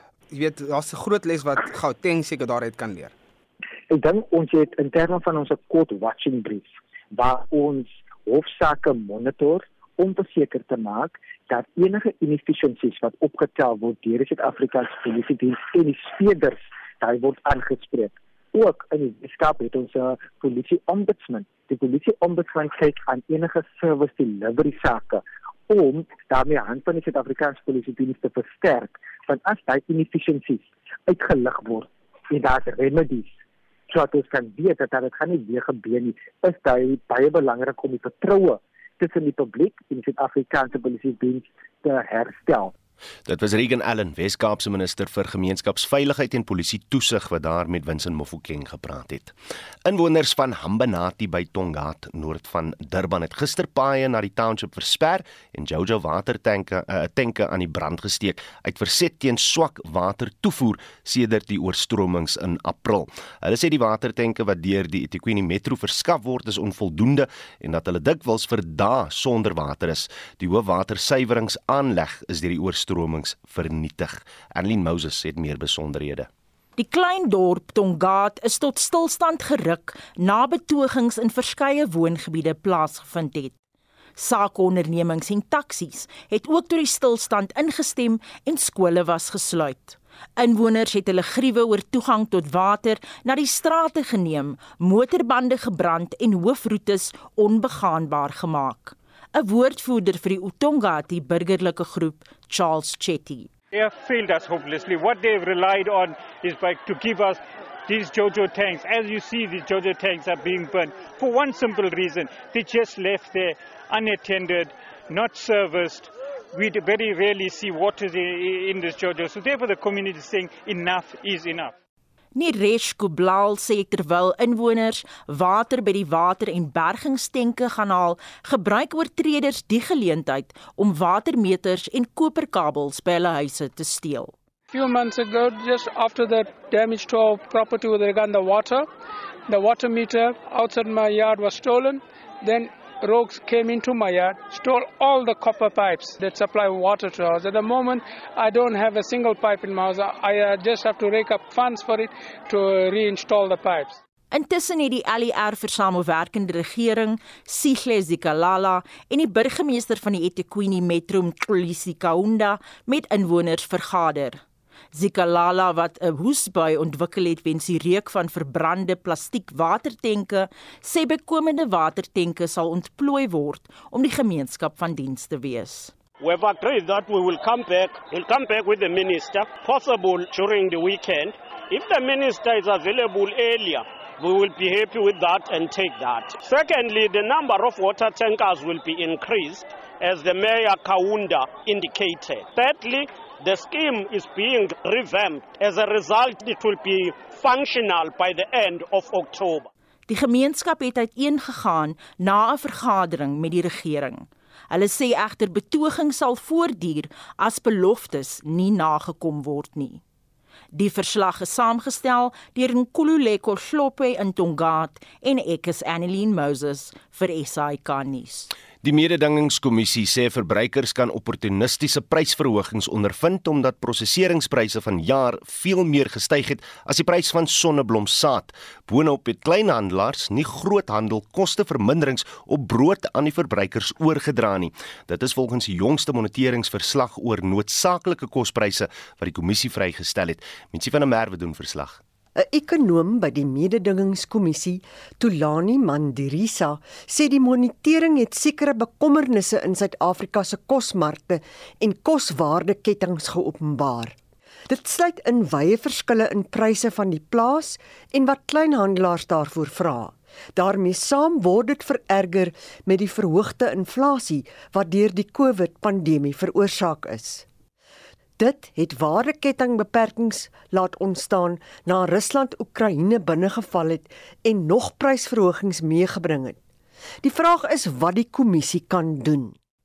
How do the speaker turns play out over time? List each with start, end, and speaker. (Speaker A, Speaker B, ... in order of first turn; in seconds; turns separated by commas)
Speaker A: 0.3-3.1, Speaker B: 3.9-33.3, Speaker B: 33.9-42.7, Speaker C: 43.2-76.3, Speaker D: 76.8-83.5, Speaker D: 84.2-103.5, Speaker E: 103.7-121.7, Speaker D: 122.3-134.3, Speaker F: 134.7-138.9, Speaker F: 139.5-154.0, Speaker D: 154.3-164.4, Speaker D: 164.9-175.9, Speaker G: 176.2-199.7, Speaker D: 200.1-210.0, Speaker D: 210.7-218.5, Speaker C: 218.8-242.0, Speaker H: 242.3-254.2, Speaker H: 254.7-267.4, Speaker H: 268.4-276.6, Speaker H: 277.2-279.6